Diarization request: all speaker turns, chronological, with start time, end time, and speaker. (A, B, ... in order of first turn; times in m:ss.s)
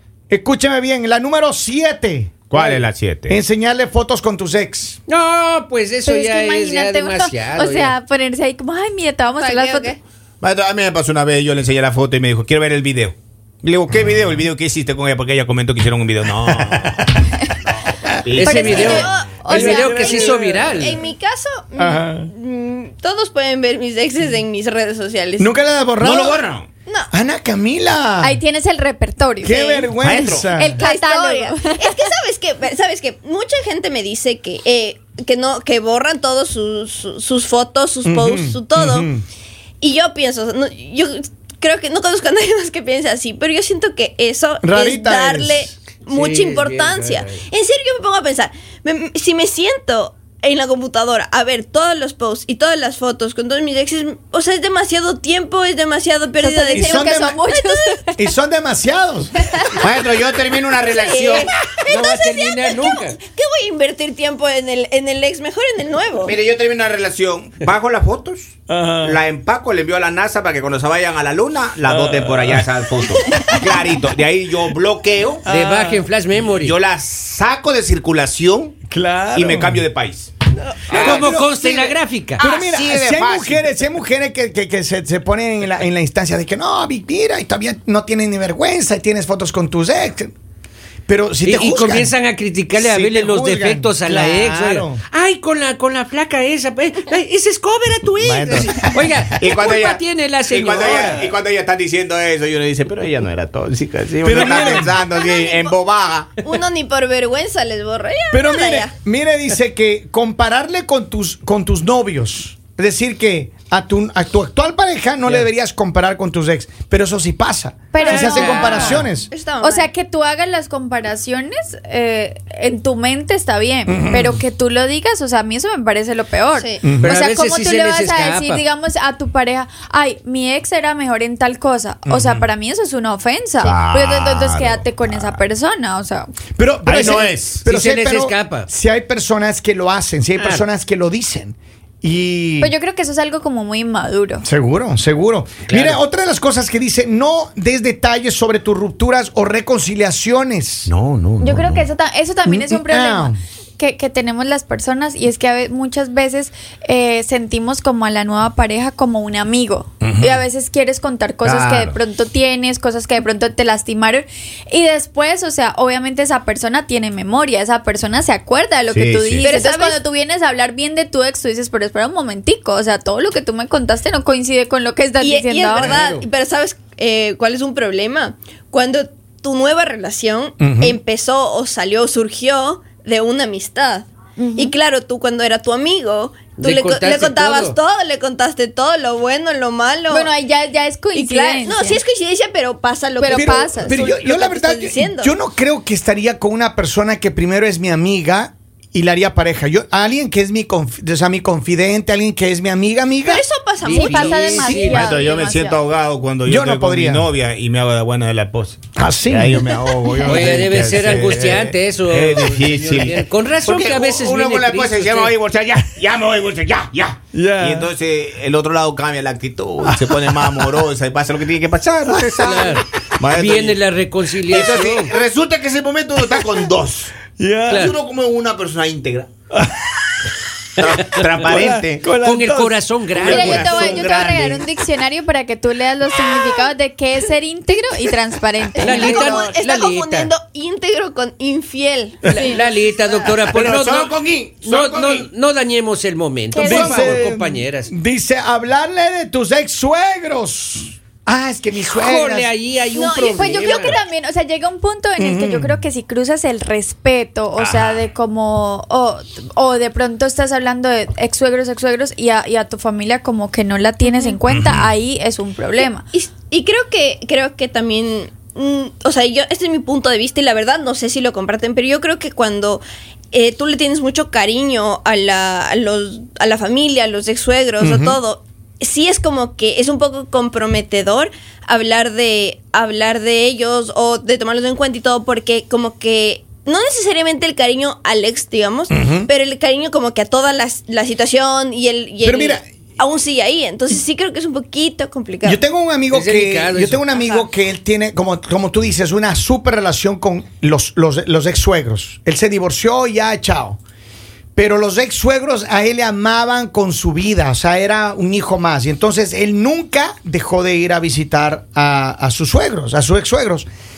0:00.3-0:02.4 A
0:02.5-0:03.4 B
0:03.3-0:05.0 A
0:05.1-0:07.9 C
0:06.0-0:09.9 D
0:09.4-0:10.0 E
0:10.4-0:17.1 B
0:16.5-0:17.3 A
0:18.2-0:19.1 B
0:18.3-0:21.0 C
0:18.4-0:20.2 D
0:18.5-0:25.5 E
0:19.4-0:20.8 A
0:21.8-0:22.3 A
0:25.4-0:26.4 A
0:26.0-0:26.7 B
0:27.1-0:28.4 A
0:28.2-0:29.9 D
0:29.4-0:30.8 A
0:30.0-0:30.5 B
0:30.5-0:32.0 D
0:30.8-0:39.1 E
0:38.0-0:39.2 A
0:39.8-0:58.0 E
0:44.6-0:45.7 A
0:46.1-0:47.4 C
0:56.4-0:58.3 D
0:56.7-0:57.4 A
0:58.2-0:59.6 A
0:59.8-1:01.5 B
1:00.9-1:06.4 E
1:01.8-1:03.2 C
1:06.2-1:15.4 B
1:08.7-1:09.2 A
1:15.4-1:16.1 A
1:15.5-1:16.7 C
1:16.5-1:18.8 B
1:18.9-1:19.8 A
1:19.3-1:20.3 B
1:20.9-1:21.4 B
1:20.9-1:22.4 C
1:20.9-1:30.3 A
1:22.4-1:23.6 B
1:31.1-1:32.1 A
1:31.4-1:41.3 C
1:32.7-1:35.0 A
1:38.2-1:46.4 B
1:38.5-1:38.8 A
1:40.8-1:41.2 A
1:44.2-1:45.0 A
1:45.1-1:45.8 E
1:46.4-1:48.9 E
1:48.3-1:59.3 A
1:57.9-1:59.0 D
1:58.0-1:59.9 E
1:58.2-1:59.1 C
1:59.6-2:16.3 D
2:03.9-2:04.4 A
2:06.5-2:06.9 E
2:06.8-2:07.2 A
2:07.0-2:08.6 C
2:12.0-2:12.5 A
2:13.6-2:15.4 B
2:16.6-2:22.7 A
2:16.8-2:17.6 B
2:17.7-2:18.7 C
2:20.4-2:20.6 C
2:22.6-2:24.4 D
2:24.4-2:30.9 A
2:25.7-2:26.0 C
2:30.8-2:31.9 B
2:31.4-2:56.0 D
2:32.4-2:33.4 A
2:40.0-2:40.4 B
2:41.4-2:42.0 B
2:48.9-2:49.5 B
2:49.4-2:50.0 E
2:55.2-3:10.3 E
2:55.8-2:56.2 C
3:00.6-3:01.0 A
3:04.4-3:04.7 D
3:06.6-3:07.8 C
3:10.1-3:12.0 D
3:11.1-3:15.3 E
3:13.2-3:14.1 D
3:13.3-3:23.4 A
3:23.3-3:24.9 E
3:23.8-3:25.2 C
3:23.9-3:25.8 D
3:24.8-3:42.6 B
3:26.4-3:27.3 A
3:29.0-3:30.8 A
3:30.2-3:35.3 C
3:37.3-3:37.9 A
3:39.8-3:40.8 A
3:41.8-3:42.8 A
3:42.4-3:45.1 C
3:43.2-3:43.8 B
3:44.4-3:47.1 B
3:47.3-3:47.8 A
3:47.7-3:47.9 C
3:47.7-3:49.3 B
3:49.5-3:50.0 A
3:50.8-3:52.1 B
3:51.2-3:52.9 A
3:52.1-3:53.8 C
3:53.2-3:59.5 D
3:53.2-3:54.7 B
3:53.7-3:54.3 A
3:58.7-4:03.4 E
3:58.8-4:00.3 C
4:02.3-4:02.6 D
4:02.5-4:07.9 C
4:03.4-4:05.3 B
4:06.5-4:07.2 D
4:06.6-4:12.5 A
4:12.0-4:14.0 C
4:12.9-4:14.0 E
4:13.4-4:26.0 D
4:15.2-4:15.8 A
4:17.6-4:18.0 B
4:24.0-4:24.4 E
4:24.5-4:24.9 B
4:26.1-4:55.6 E
4:37.8-4:38.2 A
4:48.9-4:49.3 A
4:52.2-4:52.6 A
4:55.4-5:03.8 A
4:56.1-4:57.0 C
4:57.1-4:57.5 E
5:04.6-5:13.7 A